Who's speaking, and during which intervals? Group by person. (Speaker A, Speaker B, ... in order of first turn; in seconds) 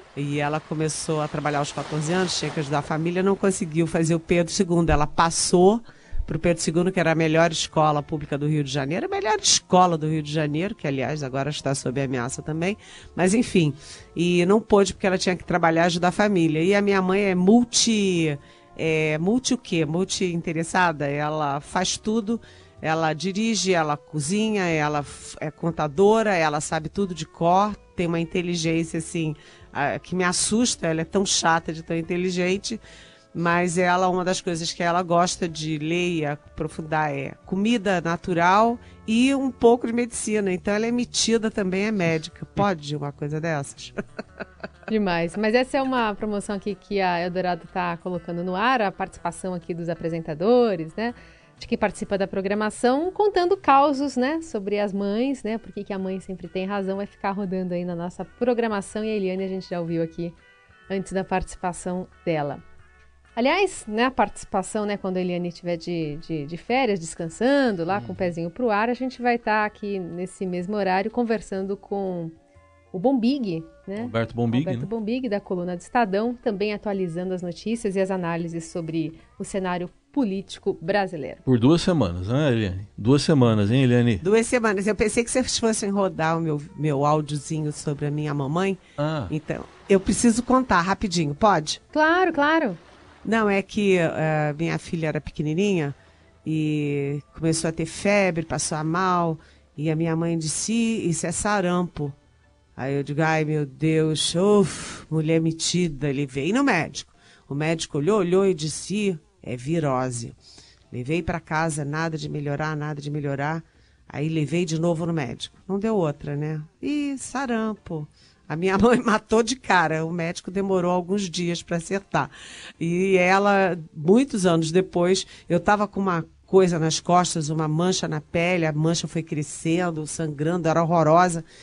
Speaker A: 0.1-32.8, 33.3-43.9, 84.2-91.8, 93.2-102.2, 102.8-110.3, 110.9-131.4
Speaker B: 44.9-60.4, 60.9-62.6, 63.4-72.3, 72.9-81.4, 91.9-92.8
Speaker C: 67.9-68.3, 74.0-74.9, 81.5-84.2, 89.0-89.3